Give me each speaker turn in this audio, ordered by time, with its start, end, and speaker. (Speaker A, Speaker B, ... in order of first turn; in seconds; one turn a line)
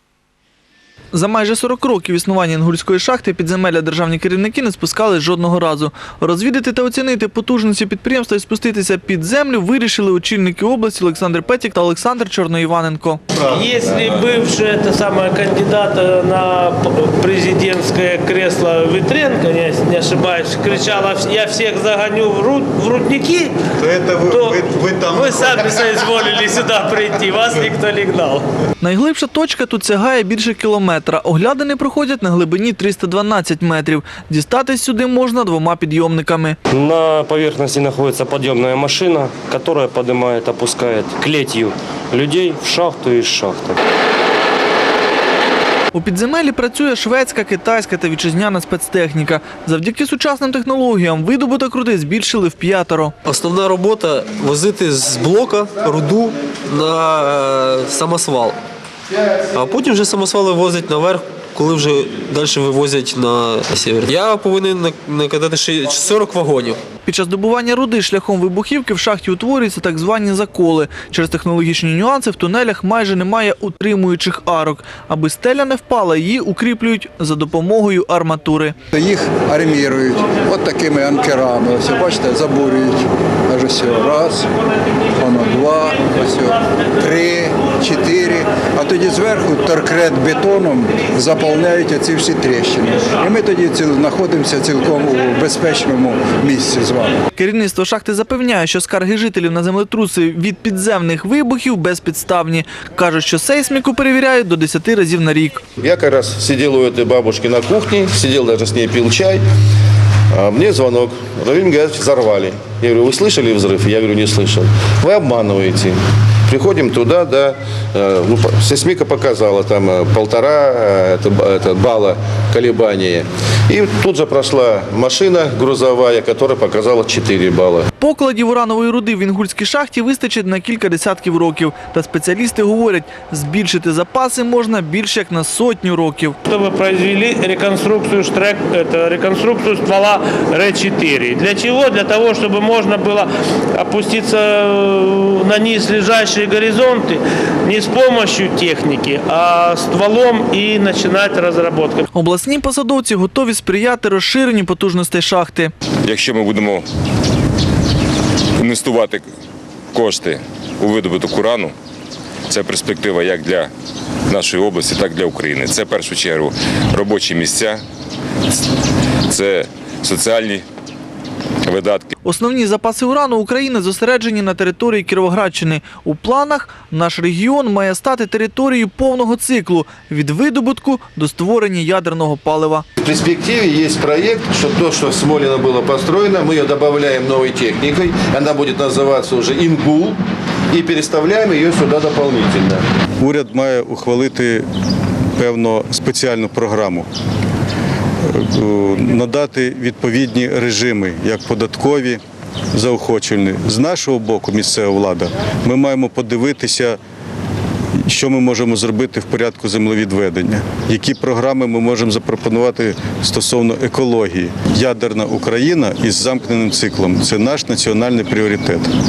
Speaker A: 1.1-13.2
Speaker B: 13.4-23.5
Speaker C: 23.8-24.2
Speaker B: 24.1-28.4
Speaker A: 28.8-36.6
Speaker D: 36.7-43.8
Speaker A: 45.9-53.1
Speaker E: 53.2-58.6
Speaker E: 59.3-66.8
Speaker A: 67.0-78.7
Speaker F: 78.9-84.5
Speaker F: 85.1-97.2
Speaker A: 97.4-105.6
Speaker G: 105.8-109.4
Speaker G: 110.3-116.0
Speaker G: 116.5-127.9
Speaker A: 128.0-136.4
Speaker B: 136.4-152.0
Speaker A: 152.1-155.7
Speaker H: 156.1-156.9
Speaker H: 158.6-159.2
Speaker H: 159.9-161.7
Speaker H: 162.5-163.7
Speaker H: 164.3-167.8
Speaker H: 169.3-170.6
Speaker H: 171.6-172.1
Speaker A: 172.2-182.8
Speaker G: 183.0-190.2
Speaker G: 190.7-192.8
Speaker C: 193.2-194.7
Speaker C: 195.4-197.1
Speaker C: 198.3-202.2
Speaker C: 202.7-207.0
Speaker C: 208.1-218.9